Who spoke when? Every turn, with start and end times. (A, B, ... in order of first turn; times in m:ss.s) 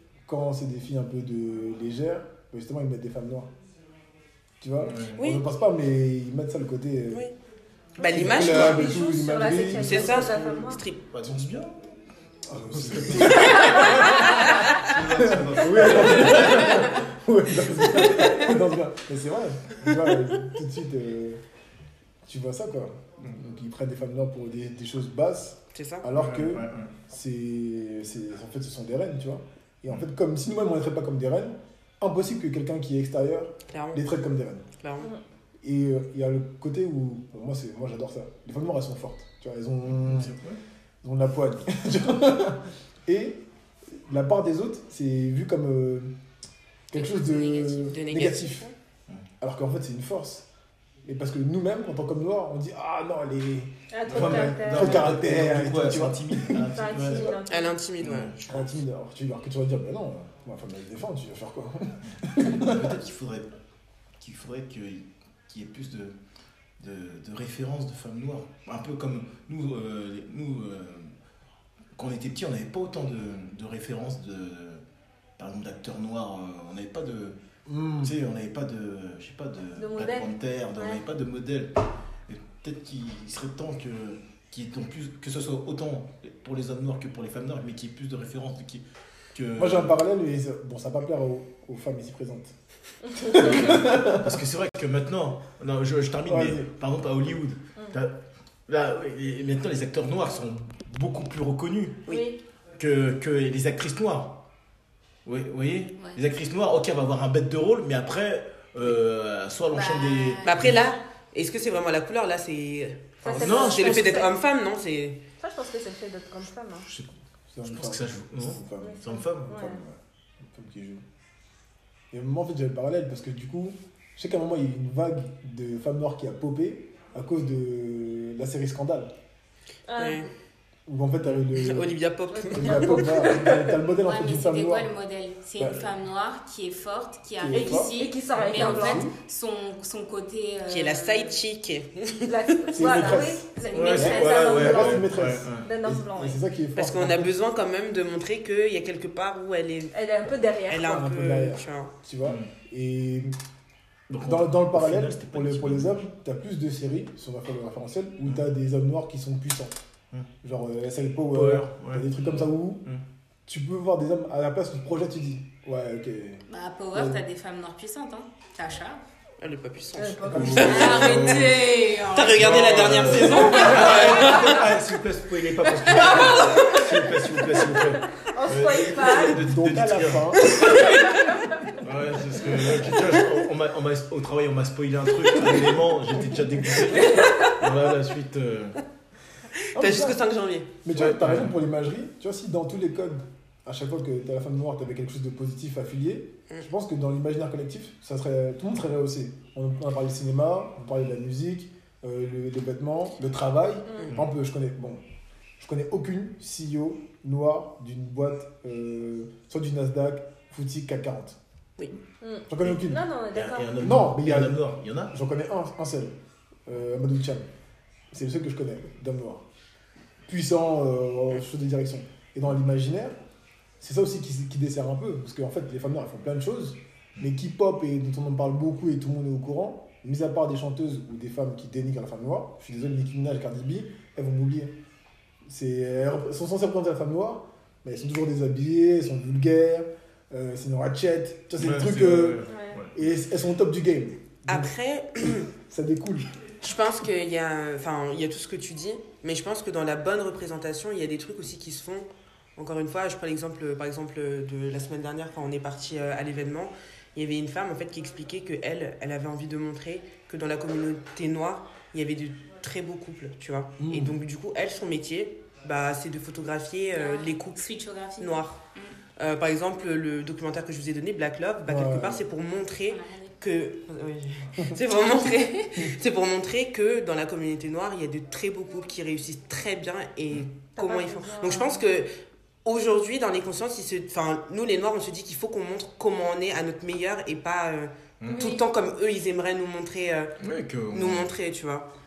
0:00.2-0:03.5 A
0:04.6-0:07.3 A
0:04.8-0:05.2 B
0:05.2-0:05.4 C
0:08.0-0:09.0 C
0:08.0-0:10.3 A
0:08.4-0:10.8 D
0:09.6-0:11.1 C
0:11.1-0:11.9 B
0:12.5-0:14.2 A
0:12.7-0:16.9 B
0:14.4-0:14.7 C
0:15.2-0:21.4 A
0:22.2-0:34.6 A
0:25.7-0:26.0 C
0:26.1-0:26.9 B
0:33.7-0:34.0 C
0:34.8-0:35.1 C
0:35.6-0:40.3 A
0:39.9-0:40.6 B
0:41.0-0:46.1 A
0:46.9-0:48.7 A
0:46.9-0:48.0 E
0:47.9-0:48.7 C
0:49.4-0:50.5 A
0:51.0-0:57.4 A
0:53.9-0:55.3 D
0:54.0-0:57.4 B
0:56.6-0:57.8 D
0:57.5-0:58.3 C
0:58.0-0:58.6 B
0:58.4-1:03.0 A
1:02.0-1:03.5 B
1:04.2-1:06.2 B
1:06.8-1:11.1 B
1:11.9-1:14.8 B
1:15.4-1:17.4 B
1:17.7-1:18.1 A
1:18.0-1:30.0 B
1:19.8-1:21.0 D
1:29.6-1:32.6 A
1:33.0-1:33.5 D
1:33.3-1:34.4 A
1:33.3-1:42.0 B
1:36.3-1:36.7 A
1:42.1-1:42.4 D
1:42.8-1:44.4 B
1:45.2-1:50.9 B
1:49.7-1:50.7 E
1:50.4-1:55.2 C
1:53.2-1:54.3 D
1:53.2-1:54.2 B
1:55.4-1:56.9 D
1:56.8-1:59.7 B
1:57.5-2:01.0 A
1:58.8-1:59.8 D
2:02.1-2:09.1 A
2:09.9-2:10.3 D
2:10.0-2:10.3 C
2:10.9-2:12.0 A
2:11.5-2:13.3 C
2:12.3-2:13.7 D
2:12.5-2:14.9 A
2:14.0-2:21.4 E
2:15.6-2:15.8 A
2:17.4-2:18.0 A
2:17.5-2:19.1 D
2:18.5-2:19.1 A
2:20.7-2:22.9 C
2:22.2-2:26.4 D
2:22.7-2:27.3 A
2:23.6-2:24.4 E
2:23.7-2:25.8 B
2:26.8-2:31.9 C
2:29.9-2:30.9 D
2:30.8-2:33.3 A
2:32.2-2:32.5 B
2:34.1-2:36.0 B
2:34.2-2:39.7 A
2:40.4-2:42.8 A
2:41.3-2:42.1 B
2:43.4-2:47.2 A
2:46.5-2:49.0 E
2:49.4-2:51.6 C
2:50.0-2:51.1 D
2:50.3-2:50.8 A
2:50.3-2:51.5 B
2:50.6-2:53.5 E
2:52.1-2:54.7 C
2:52.3-3:00.4 B
2:55.9-2:59.4 D
2:59.2-3:00.7 A
3:00.5-3:01.1 C
3:00.8-3:01.0 D
3:01.8-3:08.8 B
3:07.0-3:07.5 D
3:09.7-3:10.2 A
3:09.7-3:10.8 C
3:10.8-3:25.0 A
3:10.9-3:11.5 B
3:23.9-3:24.1 D
3:25.6-3:31.4 A
3:32.2-3:33.8 D
3:32.5-3:33.0 A
3:33.3-3:35.1 B
3:33.8-3:37.5 A
3:38.1-3:39.4 A
3:40.3-3:43.2 A
3:43.8-3:54.7 A
3:55.4-4:04.7 A
4:01.6-4:02.9 B
4:02.5-4:02.8 D
4:04.4-4:05.5 C
4:05.2-4:06.3 A
4:06.6-4:28.6 C
4:23.8-4:24.1 A
4:27.0-4:29.0 E
4:29.2-4:42.1 C
4:31.6-4:32.2 A
4:32.9-4:33.3 E
4:40.8-4:41.8 D
4:42.6-4:50.4 C
4:48.3-4:48.6 D
4:50.4-4:51.3 B
4:50.9-4:51.9 C